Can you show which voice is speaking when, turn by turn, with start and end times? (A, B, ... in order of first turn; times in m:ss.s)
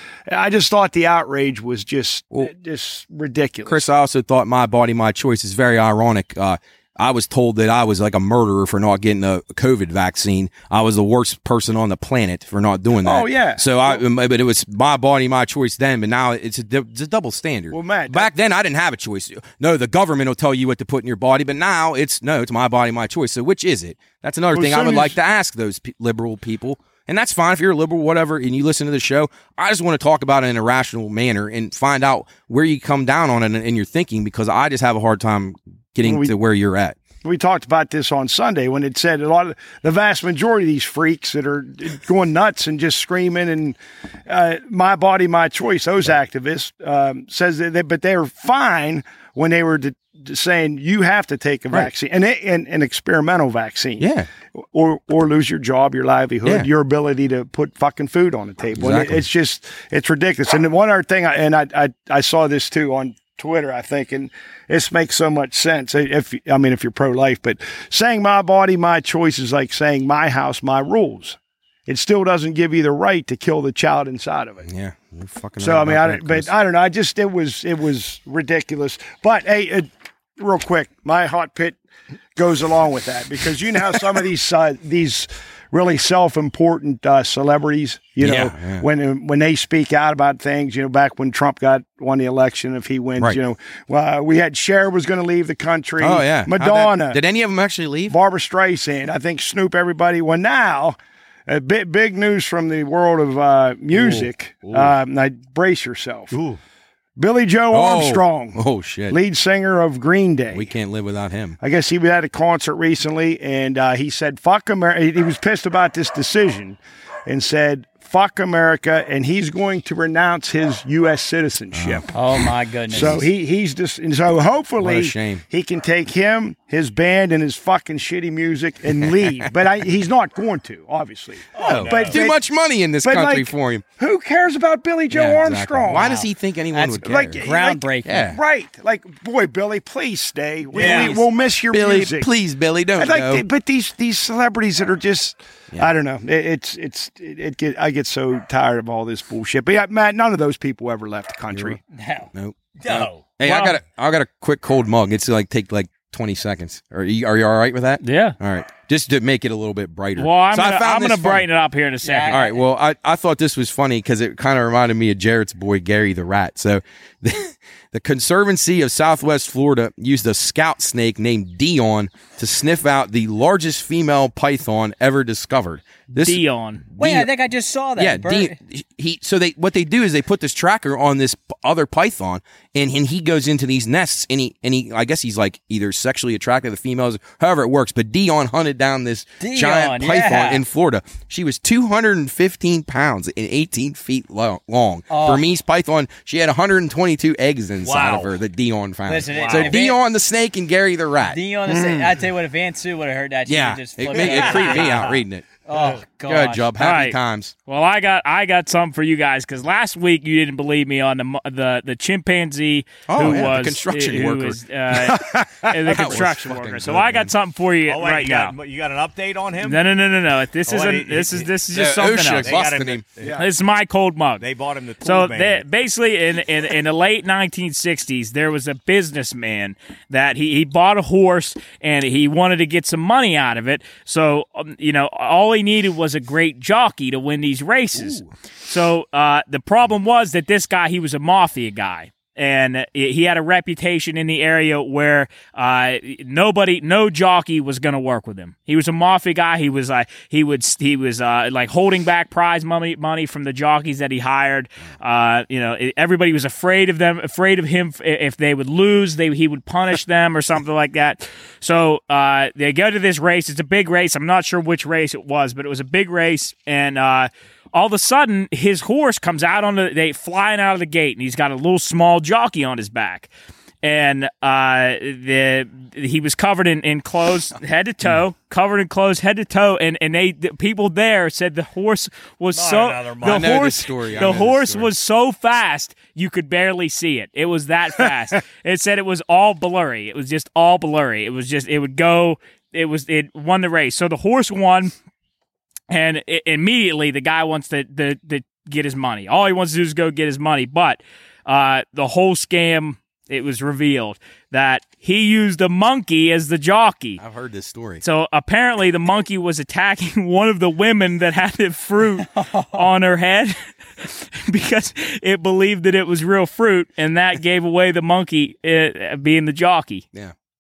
0:00.3-0:03.8 A
0:03.7-0:37.0 B
0:13.0-0:14.0 A
0:17.7-0:18.3 A
0:24.5-0:25.1 A
0:36.0-0:36.3 A
0:37.2-0:54.1 A
0:54.0-0:54.3 B
0:54.6-1:14.7 A
0:58.8-0:59.2 B
1:14.6-1:16.5 B
1:15.6-1:21.8 A
1:22.4-1:37.2 A
1:28.2-1:28.8 B
1:36.0-1:38.2 B
1:38.1-1:46.4 A
1:43.9-1:45.0 B
1:46.3-1:46.6 C
1:47.2-1:50.7 A
1:47.7-1:49.2 B
1:50.5-1:51.6 B
1:51.6-2:02.2 A
2:01.7-2:02.1 B
2:02.1-2:03.3 D
2:02.9-2:12.4 A
2:02.9-2:03.2 B
2:04.8-2:05.4 B
2:09.0-2:09.5 B
2:11.5-2:12.2 C
2:11.6-2:13.8 B
2:13.0-2:16.2 A
2:15.1-2:17.4 B
2:15.9-2:18.2 D
2:17.0-2:22.3 A
2:18.0-2:18.4 B
2:20.7-2:21.2 D
2:20.7-2:21.2 C
2:21.7-2:23.4 B
2:23.0-2:31.8 A
2:31.5-2:31.8 B
2:31.9-2:32.3 D
2:32.3-2:41.5 B
2:32.8-2:33.3 C
2:38.0-2:38.4 E
2:40.2-2:42.4 E
2:42.0-2:42.6 D
2:42.3-2:57.3 B
2:56.1-2:56.8 E
2:57.0-2:58.6 D
2:58.0-3:21.4 B
3:09.4-3:10.6 D
3:15.1-3:15.5 D
3:17.8-3:18.4 C
3:19.1-3:20.0 D
3:19.2-3:19.8 C
3:21.3-3:25.1 D
3:21.7-3:22.1 A
3:23.5-3:25.5 B
3:24.1-3:25.2 C
3:25.7-3:26.7 D
3:25.7-3:26.0 C
3:26.2-3:27.5 B
3:26.8-3:27.2 E
3:27.7-3:38.6 E
3:33.1-3:34.6 B
3:35.0-3:36.2 A
3:35.9-3:37.3 B
3:37.9-3:39.8 C
3:39.6-3:42.5 E
3:40.7-3:41.5 C
3:41.7-3:43.0 B
3:42.4-3:43.4 C
3:43.4-3:44.4 E
3:44.4-3:45.6 C
3:45.0-4:33.3 E
3:58.0-3:58.3 B
4:33.8-4:54.9 E
4:42.5-4:43.6 C
4:43.2-4:44.9 B
4:55.9-5:07.2 E
5:07.2-5:08.0 B
5:08.0-5:20.0 E
5:12.3-5:12.9 D